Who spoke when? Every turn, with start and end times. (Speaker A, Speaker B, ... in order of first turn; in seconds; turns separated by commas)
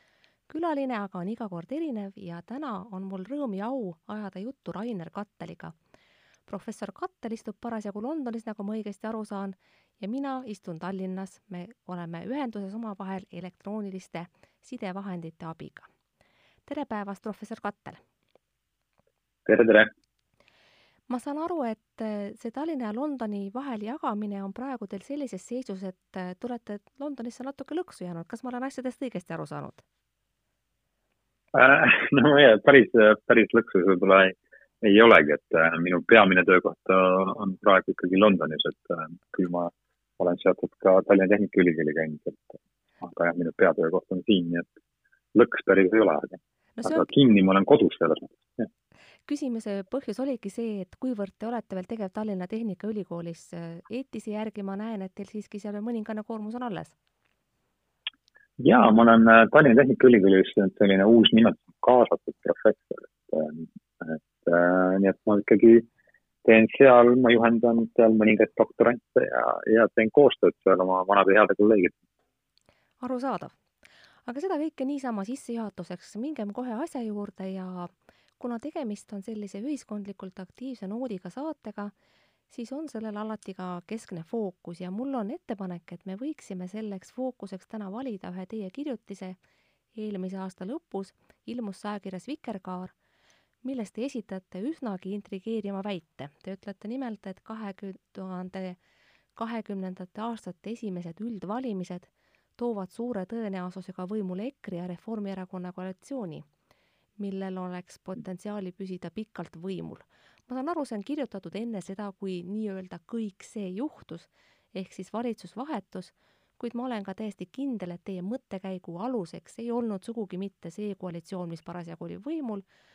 Speaker A: 0.5-5.7, Speaker A: 6.5-15.9, Speaker A: 16.7-18.0, Speaker B: 19.5-19.9, Speaker A: 21.1-29.8, Speaker B: 31.5-44.7, Speaker B: 45.3-48.7, Speaker A: 46.8-47.1, Speaker A: 49.3-57.0, Speaker B: 58.6-65.9, Speaker B: 66.5-72.0, Speaker A: 73.0-73.5, Speaker A: 74.3-81.9, Speaker A: 82.5-89.4, Speaker A: 90.0-92.9, Speaker A: 93.6-98.8, Speaker A: 99.4-106.5, Speaker A: 107.2-122.6